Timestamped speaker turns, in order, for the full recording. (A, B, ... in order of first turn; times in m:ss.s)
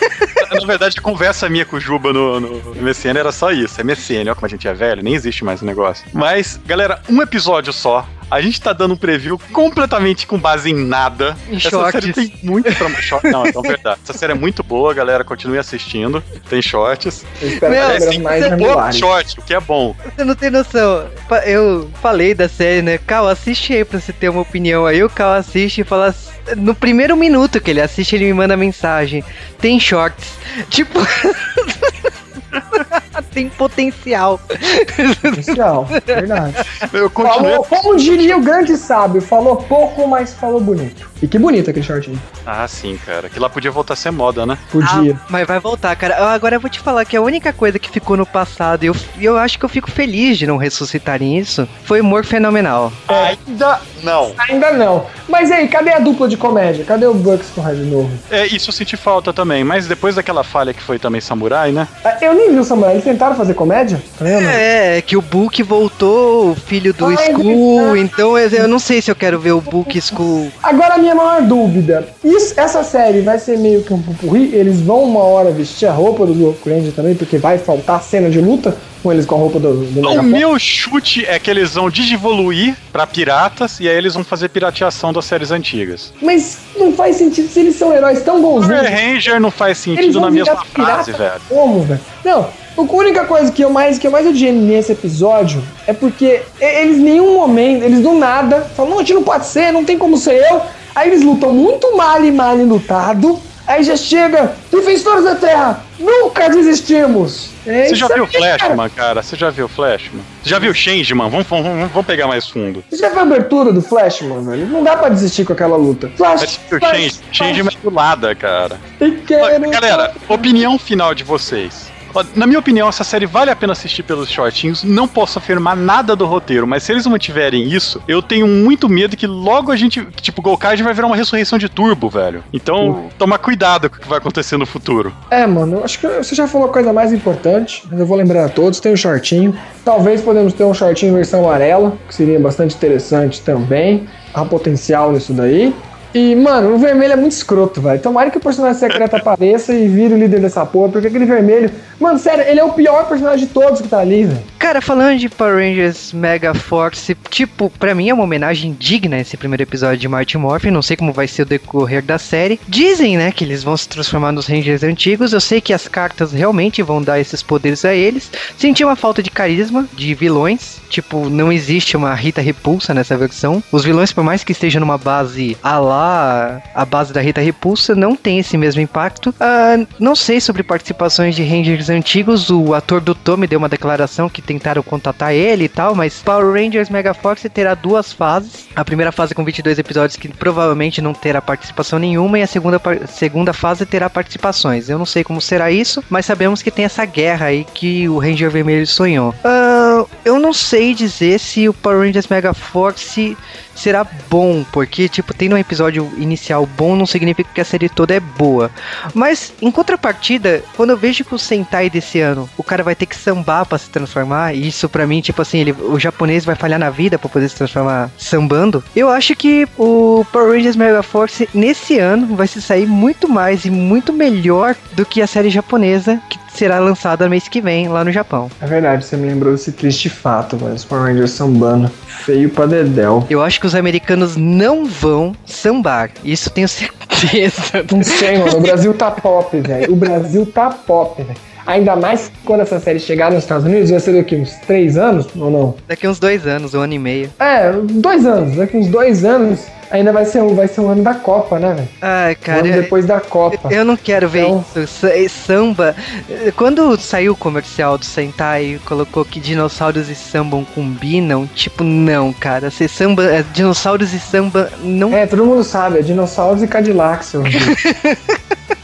0:00.4-0:20.0 A
0:11.5-0:13.7 B
0:17.4-0:19.1 C
0:17.6-0:18.2 B
0:20.1-0:36.8 B
0:35.3-0:36.6 C
0:36.8-0:38.4 A
0:37.2-0:42.2 C
0:42.4-0:44.6 A
0:44.7-0:45.2 C
0:44.8-0:53.0 B
0:53.1-0:54.4 A
0:53.1-0:53.4 C
0:54.4-0:58.2 C
0:58.3-1:01.9 A
1:02.0-1:04.6 C
1:04.3-1:10.5 B
1:07.0-1:08.7 C
1:10.6-1:20.4 C
1:20.0-1:26.1 A
1:26.2-1:29.0 C
1:28.6-1:31.5 A
1:29.9-1:48.8 C
1:47.8-1:52.8 A
1:50.5-1:50.8 C
1:52.9-1:57.6 C
1:56.4-1:58.8 A
1:59.0-2:00.7 C
1:59.4-2:15.1 A
2:15.3-2:34.5 C
2:28.9-2:29.2 A
2:34.6-3:48.5 B
3:48.6-3:53.3 C
3:53.3-3:58.8 B
3:57.9-4:05.8 C
4:05.9-4:07.3 B
4:07.4-4:11.9 C
4:12.0-4:12.9 B
4:12.5-4:14.6 C
4:13.5-4:25.2 B
4:25.1-4:27.8 C
4:27.5-4:28.5 B